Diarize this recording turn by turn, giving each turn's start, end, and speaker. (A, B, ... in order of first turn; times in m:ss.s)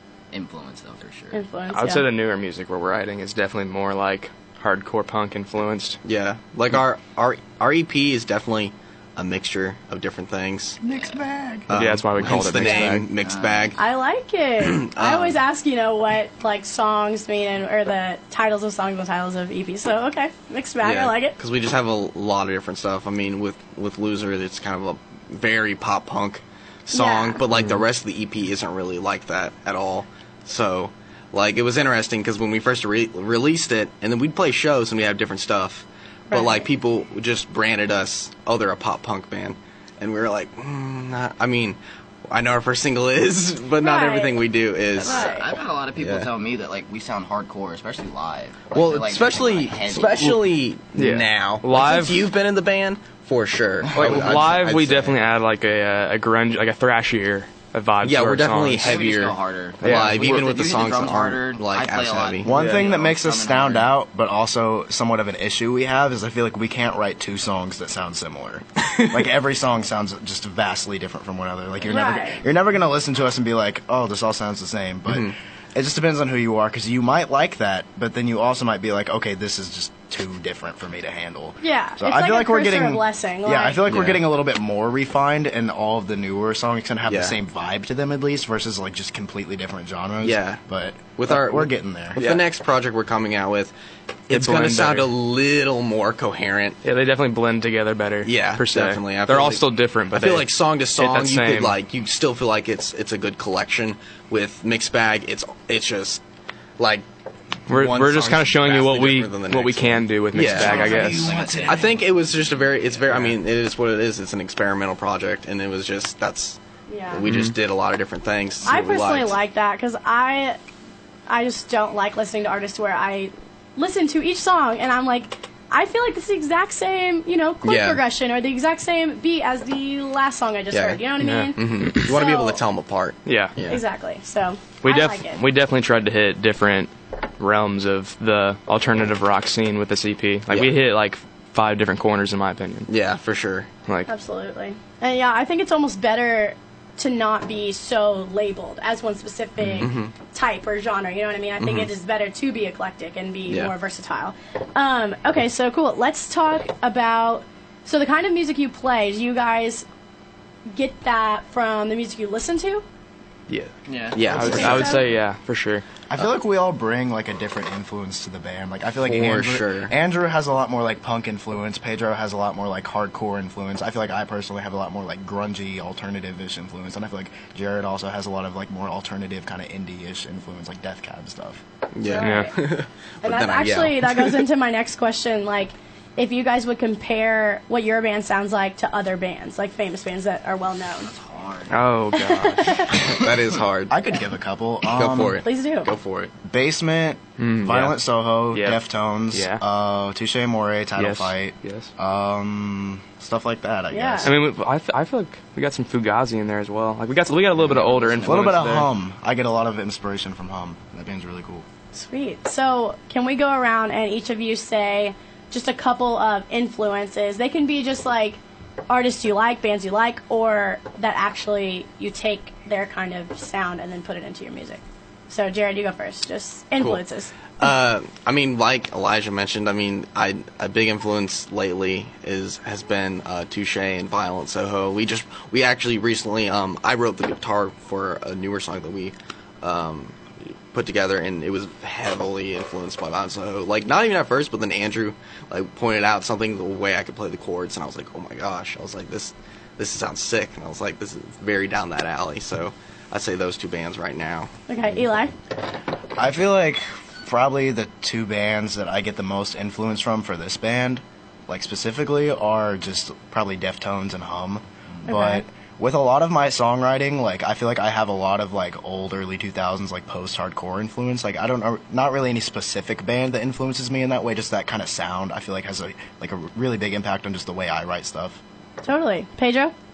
0:00.3-0:01.4 A
0:01.3-0:02.1 B
0:01.7-0:06.0 C
0:06.0-0:10.8 D
0:10.8-0:11.7 E
0:11.7-0:13.8 D
0:11.7-0:13.1 C
0:13.2-0:13.8 A
0:13.8-0:21.4 B
0:14.6-0:15.4 D
0:20.8-0:45.4 D
0:26.9-0:27.4 B
0:36.3-0:36.6 B
0:43.8-0:44.4 B
0:44.9-0:50.4 A
0:45.0-0:45.5 B
0:46.0-0:46.3 D
0:48.7-0:55.2 D
0:51.0-0:52.3 C
0:53.9-0:54.4 A
0:54.0-0:59.1 C
0:58.0-1:02.5 D
0:58.8-1:03.9 A
0:59.8-1:00.5 C
1:02.4-1:32.2 E
1:02.5-1:02.8 C
1:08.8-1:09.2 D
1:11.9-1:12.4 B
1:15.1-1:15.4 D
1:21.6-1:23.8 B
1:23.9-1:24.2 D
1:27.1-1:27.4 D
1:30.2-1:30.6 D
1:31.2-1:33.7 D
1:32.2-1:32.4 C
1:34.3-1:36.8 D
1:34.3-1:35.1 C
1:36.8-1:41.8 C
1:38.2-1:46.2 D
1:46.8-1:47.0 D
1:47.7-1:56.6 D
1:47.7-1:51.3 C
1:50.5-1:52.0 E
1:50.6-1:52.0 A
1:53.0-1:53.2 A
1:56.9-1:57.2 B
1:57.1-1:59.4 D
1:57.2-1:57.5 C
1:58.6-2:00.6 B
2:01.3-2:12.6 B
2:07.6-2:08.0 D
2:10.7-2:11.0 D
2:11.2-2:11.5 C
2:11.6-2:13.8 D
2:13.2-2:13.6 C
2:13.6-2:15.4 B
2:14.8-2:22.9 C
2:20.5-2:20.8 D
2:22.9-2:23.7 D
2:24.1-2:39.9 B
2:29.6-2:29.9 C
2:29.8-2:30.1 D
2:31.6-2:31.9 D
2:33.5-2:33.7 D
2:40.7-2:42.8 B
2:43.9-2:44.7 A
2:44.2-2:45.0 D
2:44.3-2:45.8 C
2:44.4-2:45.1 B
2:44.4-2:45.2 E
2:46.1-3:01.6 E
2:49.0-2:49.9 D
3:01.9-3:04.4 D
3:02.0-3:02.6 B
3:02.2-3:02.5 C
3:03.2-3:11.1 B
3:11.0-3:11.8 A
3:11.7-3:13.0 C
3:12.1-3:12.9 B
3:12.9-3:14.0 D
3:13.9-3:15.4 E
3:14.9-3:16.3 D
3:15.4-3:15.9 B
3:16.4-3:24.4 E
3:17.4-3:18.0 C
3:18.5-3:19.6 C
3:21.0-3:21.9 C
3:23.9-3:24.3 B
3:24.2-3:28.9 C
3:27.6-3:28.8 A
3:28.2-3:31.7 E
3:31.9-3:47.7 B
3:47.6-4:14.6 D
4:14.7-4:15.3 B
4:16.2-4:38.4 E
4:25.1-4:25.4 B
4:38.8-4:39.7 B